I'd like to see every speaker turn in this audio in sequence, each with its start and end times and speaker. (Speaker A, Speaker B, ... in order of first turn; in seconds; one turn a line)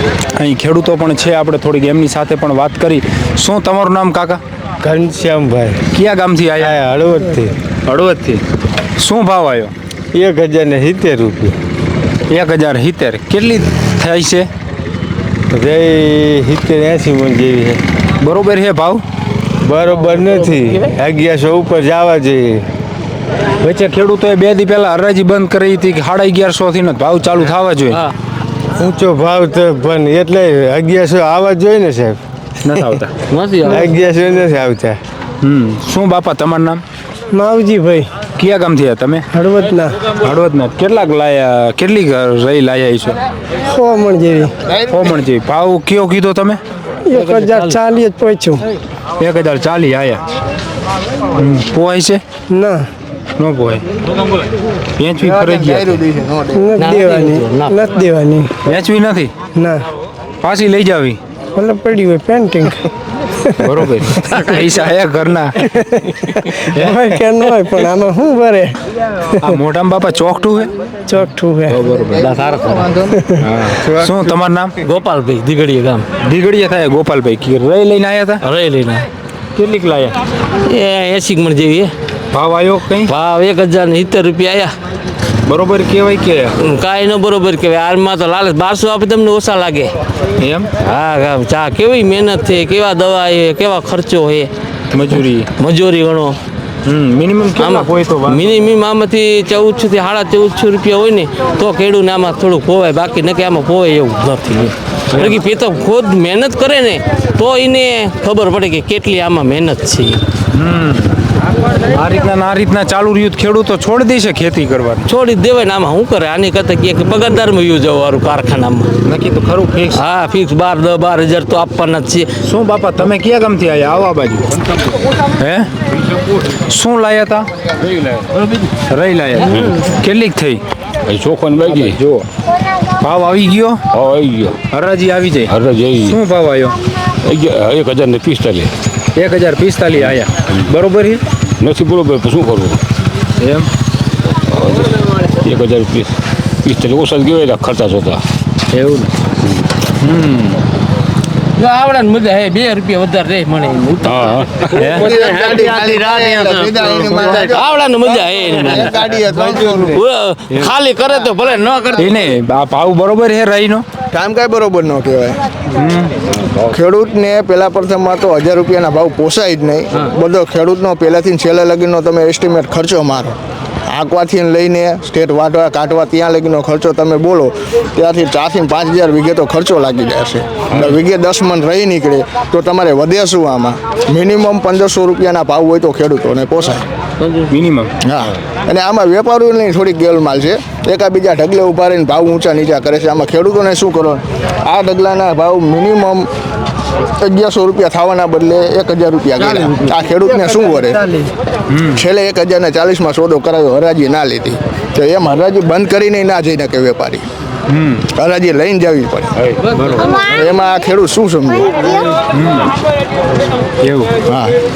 Speaker A: 0.3-4.4
Speaker B: 4.8-5.8
Speaker A: 5.9-6.8
Speaker B: 6.6-7.5
Speaker A: 7.8-8.4
Speaker A: 9.0-9.7
Speaker B: 10.1-11.6
Speaker A: 12.3-14.5
Speaker B: 15.5-17.8
Speaker A: 18.2-19.0
Speaker B: 19.6-22.6
Speaker A: 23.6-28.0
Speaker B: 28.8-32.2
Speaker A: 32.6-33.1
Speaker C: 33.3-33.9
Speaker B: 33.7-35.0
Speaker A: 35.4-36.8
Speaker D: 37.3-38.1
Speaker A: 38.3-39.3
Speaker D: 39.3-40.0
Speaker A: 40.1-43.2
Speaker D: 43.7-44.5
Speaker E: 44.6-45.1
Speaker A: 44.9-46.6
Speaker D: 47.0-48.6
Speaker C: 47.1-47.8
Speaker A: 49.2-50.2
Speaker A: 51.3-52.2
Speaker D: 52.5-52.9
Speaker A: 53.4-53.8
Speaker A: 55.0-56.0
Speaker E: 55.2-56.7
Speaker D: 56.5-58.5
Speaker C: 56.8-57.8
Speaker A: 58.6-59.3
Speaker D: 59.5-59.8
Speaker A: 60.4-61.2
Speaker D: 61.5-62.9
Speaker A: 63.6-65.8
Speaker D: 64.1-64.4
Speaker D: 65.8-68.8
Speaker A: 66.7-67.0
Speaker A: 69.4-70.7
Speaker D: 71.1-71.8
Speaker A: 71.7-72.3
Speaker C: 72.2-73.2
Speaker A: 73.4-74.8
Speaker B: 73.7-74.3
Speaker C: 74.8-76.0
Speaker A: 76.2-78.4
Speaker C: 78.4-79.0
Speaker A: 79.5-80.1
Speaker C: 80.7-81.9
Speaker A: 82.3-83.1
Speaker C: 83.1-84.7
Speaker A: 85.4-86.6
Speaker C: 86.6-89.9
Speaker A: 90.4-90.7
Speaker C: 90.8-94.5
Speaker A: 94.9-95.5
Speaker C: 95.5-96.4
Speaker A: 96.8-98.7
Speaker C: 97.6-110.2
Speaker A: 110.5-111.1
Speaker A: 111.8-115.1
Speaker C: 115.0-118.9
Speaker A: 119.0-120.0
Speaker C: 119.9-122.3
Speaker A: 122.4-124.5
Speaker A: 125.3-125.7
Speaker A: 126.5-127.5
Speaker F: 127.9-128.2
Speaker A: 128.9-130.6
Speaker F: 131.1-132.0
Speaker A: 131.6-132.3
Speaker A: 133.0-133.8
Speaker F: 133.9-134.6
Speaker A: 134.7-136.8
Speaker F: 135.5-136.2
Speaker F: 137.2-138.7
Speaker A: 139.2-141.2
Speaker F: 141.6-142.8
Speaker A: 143.4-143.7
Speaker F: 144.5-148.2
Speaker A: 148.7-149.1
Speaker A: 150.0-150.6
Speaker C: 151.6-154.2
Speaker F: 154.0-154.8
Speaker A: 154.7-155.1
Speaker C: 154.8-162.1
Speaker E: 154.8-160.0
Speaker A: 161.9-163.8
Speaker E: 164.1-165.4
Speaker A: 165.7-166.1
Speaker E: 166.6-173.3
Speaker E: 173.9-186.8
Speaker C: 187.2-187.5
Speaker A: 187.5-187.9
Speaker E: 188.0-196.3
Speaker E: 197.2-201.2
Speaker A: 201.7-202.0
Speaker E: 201.9-207.2
Speaker A: 207.7-208.1
Speaker E: 208.1-209.3
Speaker A: 209.6-210.2
Speaker E: 210.1-212.0
Speaker A: 212.3-212.7
Speaker A: 213.8-214.1
Speaker E: 214.2-214.5